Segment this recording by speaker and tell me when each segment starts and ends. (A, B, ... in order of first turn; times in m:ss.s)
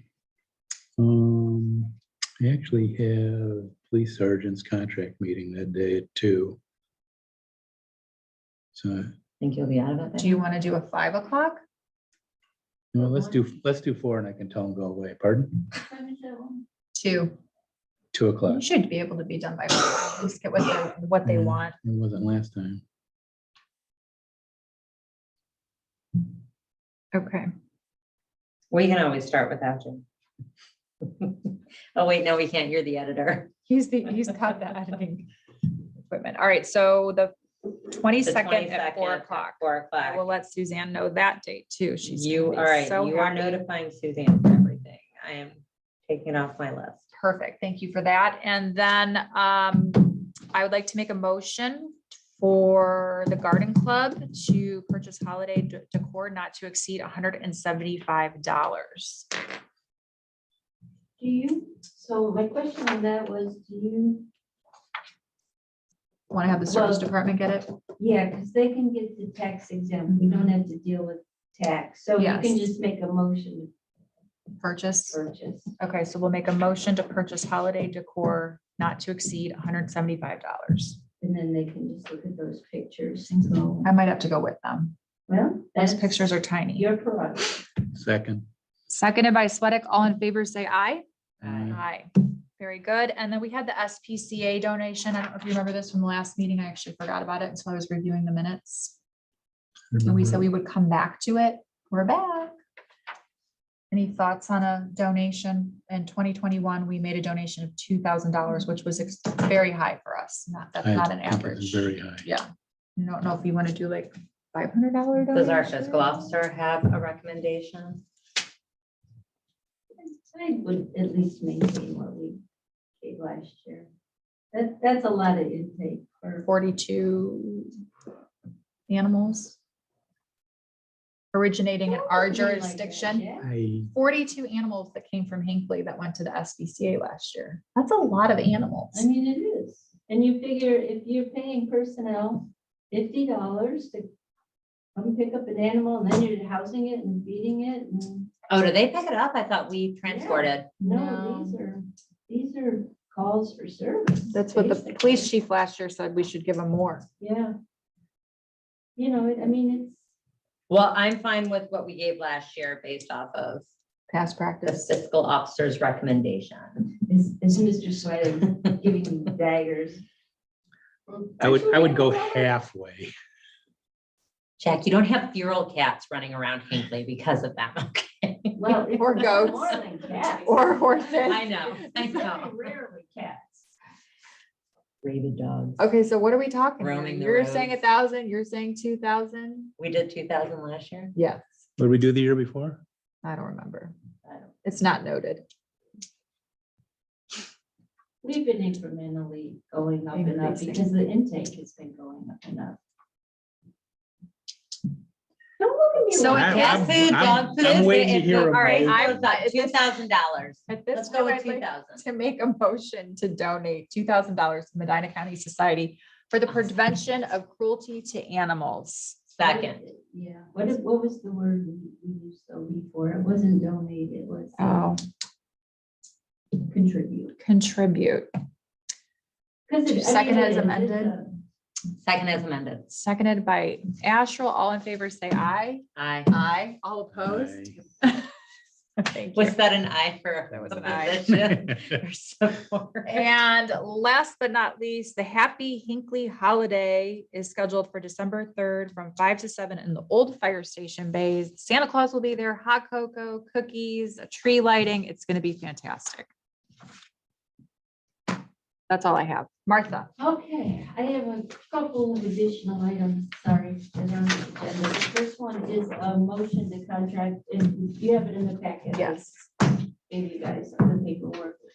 0:01.0-0:06.6 A
0:08.7-0:09.1 A
0:09.4-0:10.4 B
0:10.2-0:11.6 C
0:12.9-0:15.6 A
0:12.9-0:13.4 D
0:15.8-0:16.6 D
0:16.9-0:17.3 C
0:18.1-0:18.6 A
0:18.5-0:21.8 C
0:21.2-0:22.8 A
0:27.1-0:27.5 C
0:28.7-0:30.0 B
0:31.0-0:33.5 B
0:33.7-0:35.3 C
0:36.1-0:43.5 C
0:38.2-0:40.2 B
0:42.0-0:47.0 B
0:47.1-0:59.3 C
1:01.2-1:04.3 D
1:06.3-1:07.8 C
1:06.7-1:07.0 D
1:08.0-1:13.7 D
1:10.1-1:10.5 C
1:12.2-1:12.7 C
1:14.6-1:15.2 C
1:15.1-1:15.7 D
1:15.8-1:21.0 C
1:21.2-1:23.9 D
1:23.8-1:24.9 C
1:25.3-1:27.6 D
1:25.8-1:26.8 C
1:27.9-1:28.5 A
1:28.9-1:31.0 C
1:31.4-1:31.8 A
1:31.4-1:31.7 B
1:31.7-1:38.9 C
1:39.9-1:40.4 A
1:40.0-1:42.5 C
1:43.9-1:56.3 C
1:50.8-1:52.2 A
1:55.3-1:58.0 B
2:00.0-2:02.4 D
2:03.0-2:03.9 D
2:04.5-2:06.5 D
2:06.4-2:07.7 C
2:08.9-2:09.6 C
2:11.3-2:13.2 C
2:11.8-2:13.4 D
2:13.4-2:13.9 A
2:13.9-2:19.1 C
2:18.9-2:24.1 D
2:25.0-2:28.3 D
2:28.5-2:30.7 B
2:30.0-2:35.3 D
2:30.8-2:31.6 C
2:34.3-2:37.0 C
2:37.2-2:37.5 D
2:39.0-2:40.0 D
2:40.7-2:43.7 B
2:44.1-2:44.9 C
2:44.6-2:46.9 B
2:47.1-2:50.0 D
2:51.1-2:52.5 D
2:51.4-2:53.1 A
2:54.6-2:58.6 B
2:58.6-3:03.6 D
2:59.0-2:59.7 C
3:00.4-3:01.5 C
3:01.2-3:02.5 B
3:05.0-3:05.8 B
3:05.8-3:09.7 C
3:06.8-3:07.8 B
3:09.8-3:11.1 B
3:11.1-3:11.5 C
3:11.8-3:12.8 A
3:13.2-3:13.9 C
3:14.6-3:15.4 C
3:18.2-3:22.8 D
3:20.1-3:20.9 C
3:25.6-3:27.0 D
3:26.1-3:27.5 C
3:26.2-3:29.3 A
3:26.4-3:32.0 B
3:28.5-3:30.0 C
3:30.7-3:39.2 C
3:39.3-3:39.8 B
3:39.4-3:44.8 D
3:44.6-3:45.0 C
3:46.6-3:47.4 D
3:47.4-3:48.3 C
3:49.7-3:51.4 D
3:49.8-3:51.1 C
3:52.0-3:52.9 B
3:52.9-3:58.3 C
3:56.0-3:56.3 B
3:57.1-3:57.8 A
3:59.0-3:59.6 C
3:59.3-4:03.2 B
4:00.5-4:01.4 C
4:03.0-4:16.3 C
4:18.9-4:20.1 C
4:20.2-4:29.3 D
4:28.9-4:29.4 C
4:30.1-4:31.6 D